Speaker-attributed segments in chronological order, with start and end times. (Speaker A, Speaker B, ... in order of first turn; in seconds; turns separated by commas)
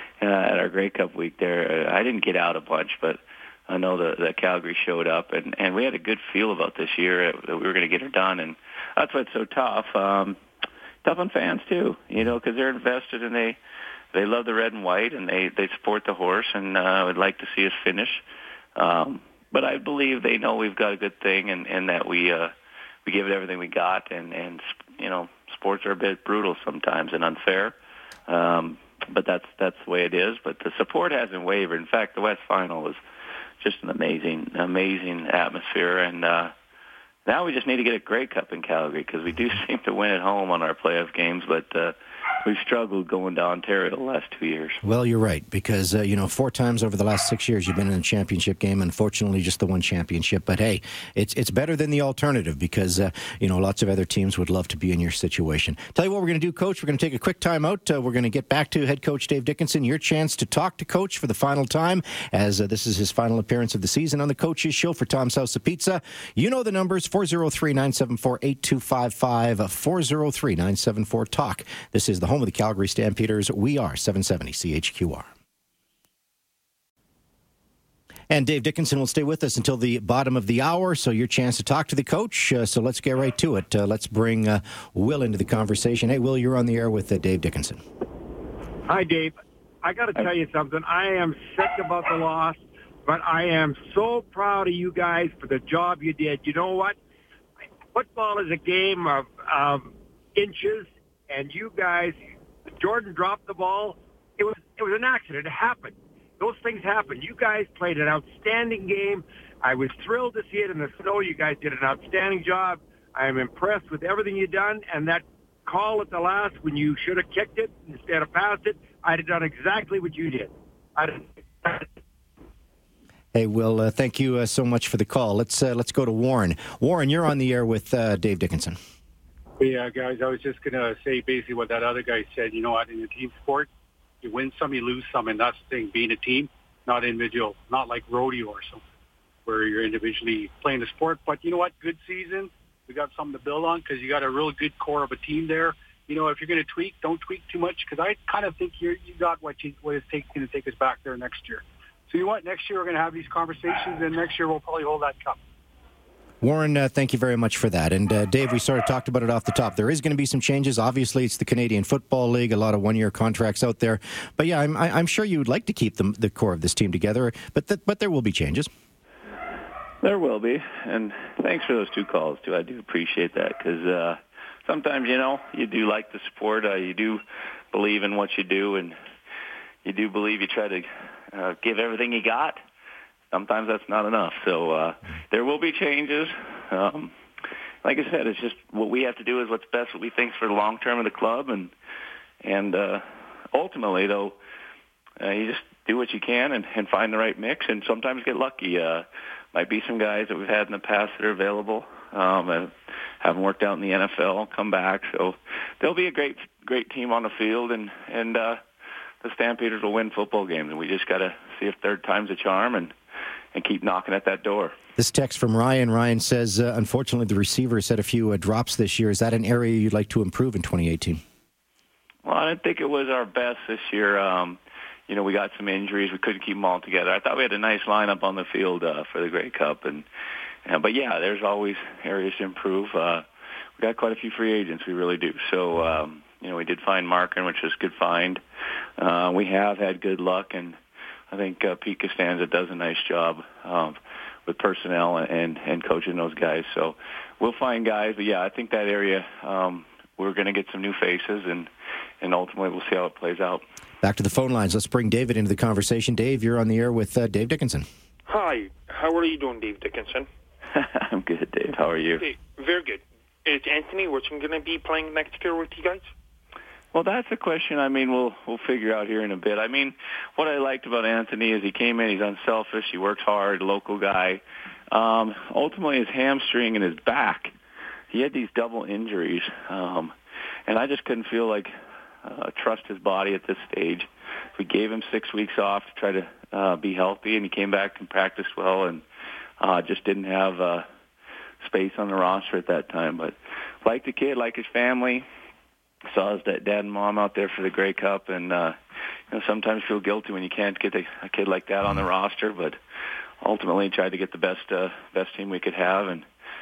Speaker A: 0.2-10.4, Speaker A: 11.0-13.6, Speaker A: 14.1-18.2, Speaker A: 18.8-22.5, Speaker A: 23.0-27.7, Speaker A: 28.3-33.0, Speaker A: 33.6-36.5, Speaker A: 37.2-44.8, Speaker B: 44.8-75.3, Speaker B: 78.3-87.8, Speaker C: 88.9-97.0, Speaker C: 97.9-102.2, Speaker C: 102.8-121.9, Speaker B: 123.3-128.8, Speaker D: 129.6-133.7, Speaker D: 134.2-138.8, Speaker D: 139.4-155.4, Speaker B: 156.4-168.7, Speaker A: 170.0-177.2, Speaker A: 177.7-178.9, Speaker A: 179.8-182.6, Speaker A: 183.3-187.1, Speaker A: 187.8-191.7, Speaker A: 192.4-194.3, Speaker A: 195.2-208.6, Speaker A: 209.2-212.9, Speaker A: 213.5-214.7, Speaker B: 215.0-221.2, Speaker A: 222.2-230.1, Speaker A: 230.7-233.2, Speaker A: 233.8-238.4, Speaker A: 239.0-240.8, Speaker A: 241.3-251.7, Speaker A: 252.2-253.6, Speaker B: 254.0-257.9, Speaker E: 258.3-260.3, Speaker A: 260.7-262.2, Speaker E: 262.2-266.1, Speaker A: 266.9-277.5, Speaker A: 278.1-280.1, Speaker A: 280.7-281.7, Speaker A: 282.2-289.0, Speaker A: 289.6-290.8, Speaker A: 291.6-295.2, Speaker A: 296.1-298.8, Speaker A: 299.3-302.8, Speaker A: 303.4-306.2